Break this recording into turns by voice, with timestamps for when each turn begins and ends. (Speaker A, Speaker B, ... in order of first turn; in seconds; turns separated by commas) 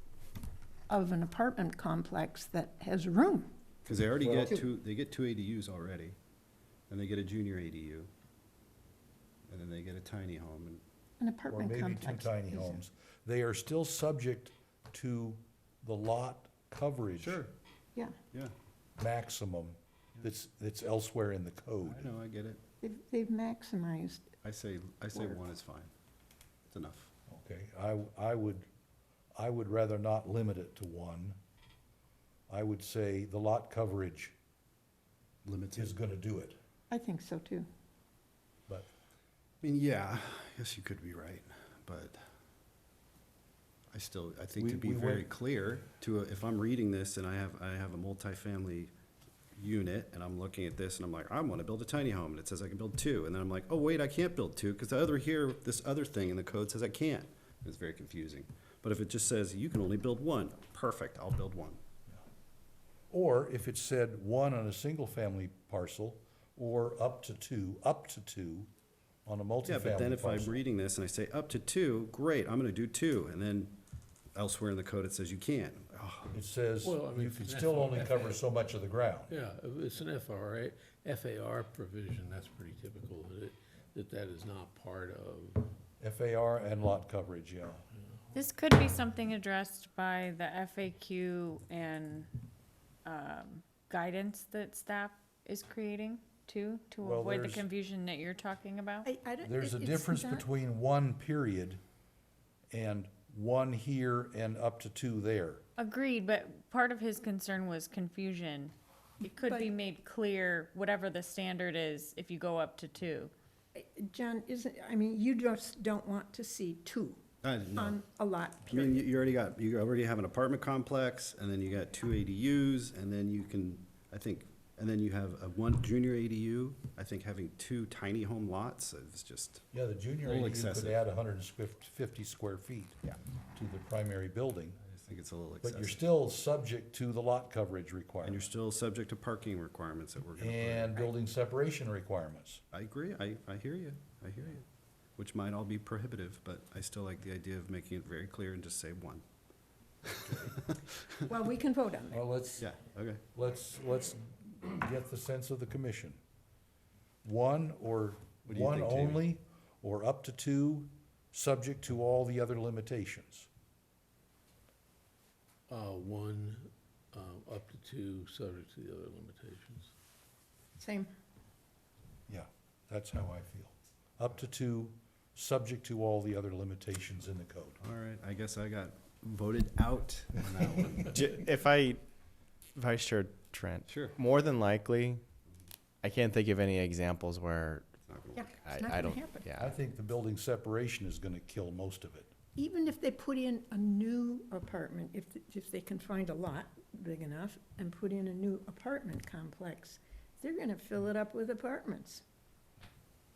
Speaker A: 0.9-3.5, Speaker B: 3.9-6.2, Speaker C: 4.2-4.6, Speaker B: 6.9-8.1, Speaker B: 9.5-10.8, Speaker A: 11.2-12.8, Speaker C: 11.5-17.4, Speaker B: 17.2-17.5, Speaker C: 19.0-22.1, Speaker B: 21.9-22.6, Speaker A: 22.8-24.3, Speaker B: 24.4-25.9, Speaker A: 25.1-25.4, Speaker B: 26.7-27.1, Speaker C: 27.3-28.7, Speaker C: 29.4-31.4, Speaker C: 32.5-34.4, Speaker B: 35.5-36.0, Speaker C: 35.8-36.6, Speaker A: 36.9-37.7, Speaker B: 39.6-42.2, Speaker B: 43.9-48.9, Speaker C: 44.6-45.3, Speaker B: 49.6-61.8, Speaker C: 63.1-68.7, Speaker C: 69.3-70.6, Speaker B: 69.6-73.8, Speaker B: 74.3-76.4, Speaker C: 76.3-79.3, Speaker D: 76.8-78.4, Speaker D: 79.3-85.7, Speaker C: 86.0-87.8, Speaker E: 88.3-92.3, Speaker E: 93.0-99.1, Speaker C: 97.0-97.7, Speaker A: 99.0-100.5, Speaker C: 99.4-101.8, Speaker C: 102.7-105.6, Speaker E: 105.8-113.3, Speaker A: 109.4-109.7, Speaker A: 113.7-117.2, Speaker B: 117.4-118.0, Speaker A: 117.8-119.0, Speaker B: 118.7-129.6, Speaker C: 129.7-133.0, Speaker B: 130.2-131.0, Speaker C: 133.5-134.8, Speaker B: 134.8-136.0, Speaker C: 135.6-138.5, Speaker B: 138.2-141.1, Speaker C: 140.4-142.6, Speaker B: 142.7-144.7, Speaker B: 145.2-149.2, Speaker B: 150.2-150.6, Speaker A: 151.3-152.2, Speaker C: 152.1-152.7, Speaker B: 152.6-153.2, Speaker C: 153.3-156.2, Speaker C: 157.2-163.5, Speaker B: 158.5-159.2, Speaker D: 165.7-169.9, Speaker A: 170.8-171.1, Speaker C: 172.3-177.8, Speaker B: 177.8-181.2, Speaker F: 181.1-182.0, Speaker F: 182.7-185.2, Speaker B: 183.9-184.2, Speaker F: 186.0-188.0, Speaker B: 188.1-188.5, Speaker A: 188.4-189.4, Speaker F: 188.6-189.8, Speaker C: 189.6-192.3, Speaker A: 192.6-202.2